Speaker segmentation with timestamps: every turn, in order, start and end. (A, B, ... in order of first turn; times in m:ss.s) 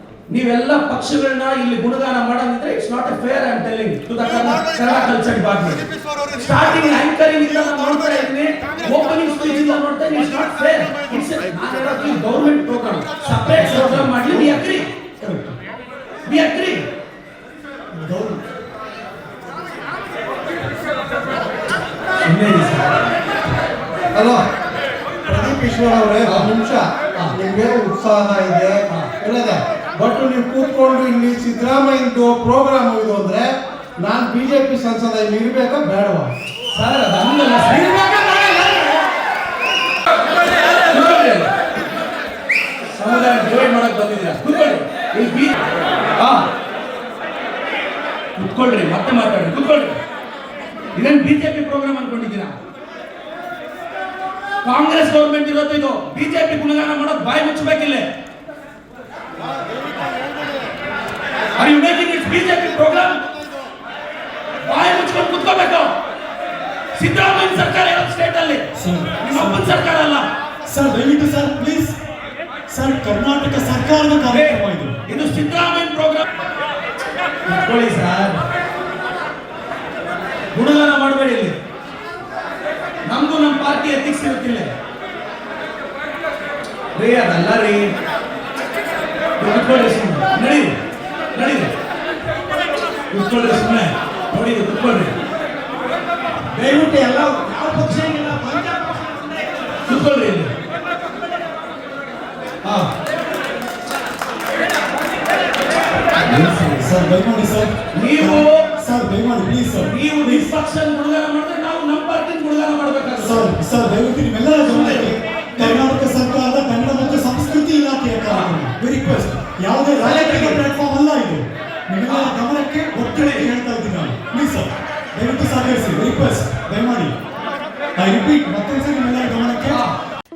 0:00.3-0:05.8 A
0:06.4-0:15.6 A
0:13.8-0:14.1 B
0:16.2-0:16.8 A
0:18.0-0:18.4 A
0:22.2-0:23.0 A
0:24.1-0:24.4 C
0:25.3-0:36.3 C
0:26.2-0:26.5 A
0:36.7-0:39.0 A
0:40.4-0:41.5 A
0:42.9-0:45.6 A
0:46.2-0:46.5 A
0:48.4-0:50.0 A
0:50.9-0:52.5 A
0:54.6-0:58.1 A
1:01.6-1:03.2 A
1:04.6-1:05.9 A
1:07.0-1:08.7 A
1:08.8-1:09.8 B
1:09.2-1:10.3 A
1:10.7-1:12.0 B
1:12.7-1:15.0 B
1:14.3-1:16.2 A
1:17.5-1:18.4 A
1:20.5-1:21.6 A
1:23.1-1:24.7 A
1:26.9-1:27.9 A
1:29.4-1:30.8 A
1:31.3-1:31.7 A
1:33.1-1:35.1 A
1:36.5-1:40.5 A
1:42.6-1:42.9 A
1:46.2-1:46.7 A
1:46.4-1:50.5 B
1:47.9-1:48.6 A
1:49.9-1:53.5 A
1:53.2-2:07.2 B
1:54.7-1:55.9 A
2:00.0-2:00.6 A
2:02.1-2:02.4 A
2:03.1-2:03.5 A
2:08.0-2:09.8 B
2:09.7-2:09.9 A